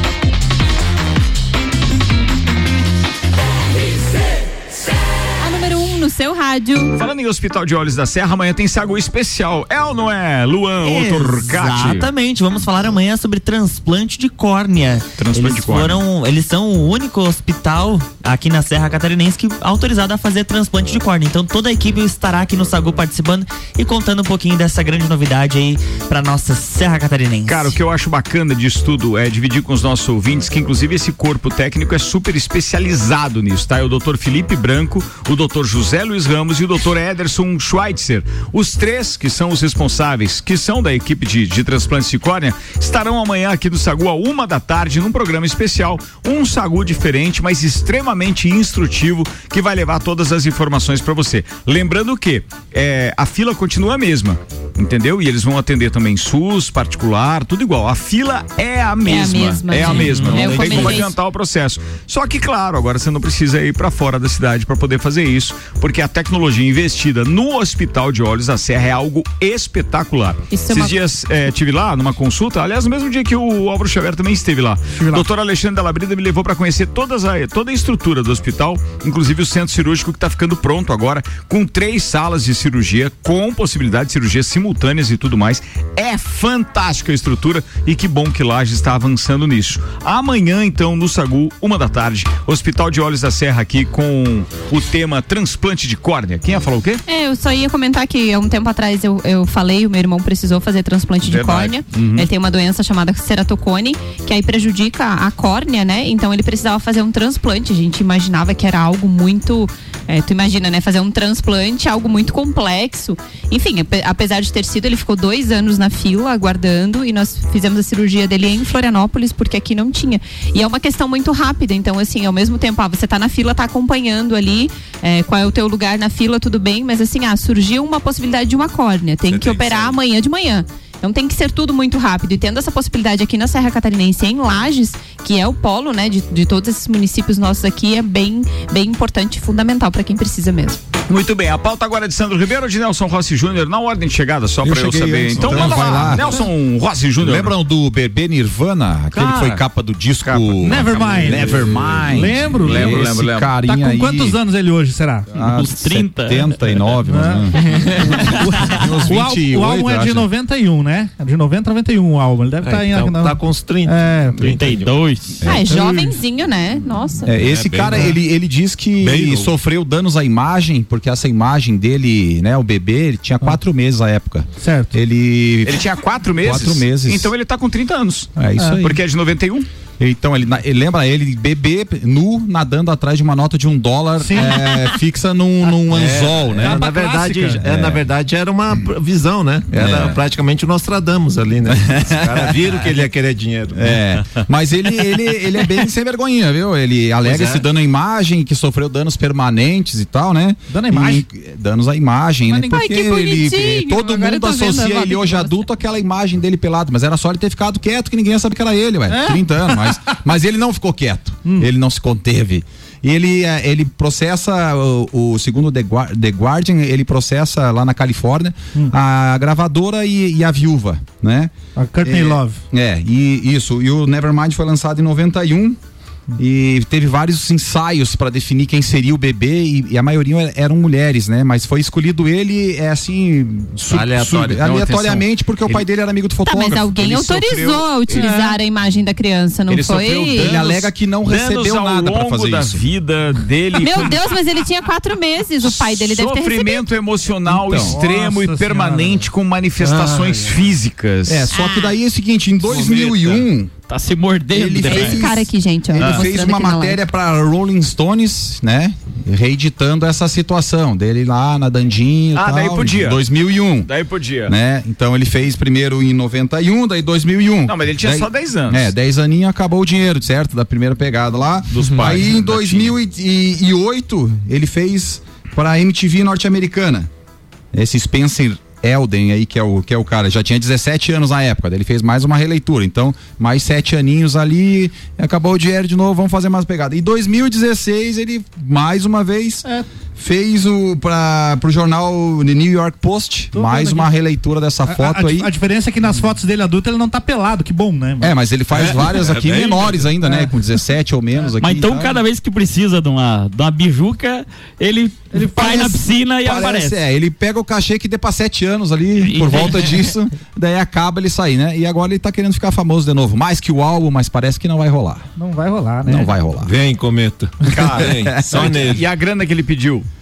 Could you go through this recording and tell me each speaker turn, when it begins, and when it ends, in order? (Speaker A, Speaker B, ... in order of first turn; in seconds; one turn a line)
Speaker A: 5.4-7.0
Speaker B: 6.9-12.1
Speaker C: 10.8-27.7
Speaker B: 15.2-16.0
Speaker B: 27.5-97.0
Speaker A: 59.0-61.1
Speaker D: 60.3-61.0
Speaker A: 70.5-71.0
Speaker E: 74.9-75.3
Speaker A: 97.1-140.8
Speaker B: 101.2-102.3
Speaker B: 141.1-147.5
Speaker F: 144.6-146.4
Speaker E: 145.9-146.3
Speaker F: 147.2-154.4
Speaker B: 149.1-149.6
Speaker B: 150.2-153.5
Speaker E: 150.6-155.2
Speaker F: 155.3-160.3
Speaker G: 155.3-156.6
Speaker E: 157.0-164.5
Speaker D: 162.6-164.9
Speaker G: 164.4-165.4
Speaker F: 165.4-165.9
Speaker A: 165.4-167.4
Speaker E: 165.7-166.2
Speaker F: 167.2-175.8
Speaker D: 167.3-168.1
Speaker E: 167.9-168.2
Speaker D: 169.0-169.5
Speaker E: 174.6-175.0
Speaker B: 175.6-179.7
Speaker F: 176.4-177.3
Speaker F: 178.4-179.0
Speaker E: 178.6-178.9
Speaker F: 180.0-186.8
Speaker E: 184.2-184.9
Speaker D: 185.9-194.0
Speaker E: 186.6-187.7
Speaker F: 187.6-188.0
Speaker F: 189.7-190.2
Speaker F: 191.7-192.5
Speaker F: 193.7-221.5
Speaker D: 197.2-197.6
Speaker E: 200.7-201.2
Speaker A: 202.7-205.7
Speaker E: 209.1-210.0
Speaker E: 221.8-222.6
Speaker F: 222.0-225.8
Speaker F: 226.4-237.8
Speaker B: 233.8-235.8
Speaker A: 236.4-240.6
Speaker B: 237.5-238.3
Speaker E: 238.1-238.6
Speaker B: 239.7-244.3
Speaker F: 240.3-242.8
Speaker A: 243.8-246.8
Speaker B: 245.6-251.5
Speaker F: 247.5-248.0
Speaker E: 247.7-249.2
Speaker F: 250.0-250.3
Speaker F: 251.3-253.7
Speaker A: 251.5-252.0
Speaker B: 252.7-253.4
Speaker G: 253.9-255.3
Speaker F: 254.5-263.9
Speaker A: 254.9-257.0
Speaker B: 256.0-256.2
Speaker B: 262.3-263.2
Speaker B: 263.8-264.5
Speaker F: 264.5-277.1
Speaker B: 267.6-268.9
Speaker B: 271.7-272.9
Speaker F: 277.7-295.5
Speaker E: 293.5-294.1
Speaker E: 294.9-298.4
Speaker F: 298.2-302.2
Speaker D: 298.8-299.6
Speaker E: 300.2-300.5
Speaker G: 301.6-307.0
Speaker E: 305.3-306.0
Speaker F: 305.6-315.2
Speaker G: 309.2-310.1
Speaker E: 315.4-316.4
Speaker F: 316.1-316.7
Speaker D: 316.6-319.0
Speaker B: 317.7-320.1
Speaker F: 318.0-318.9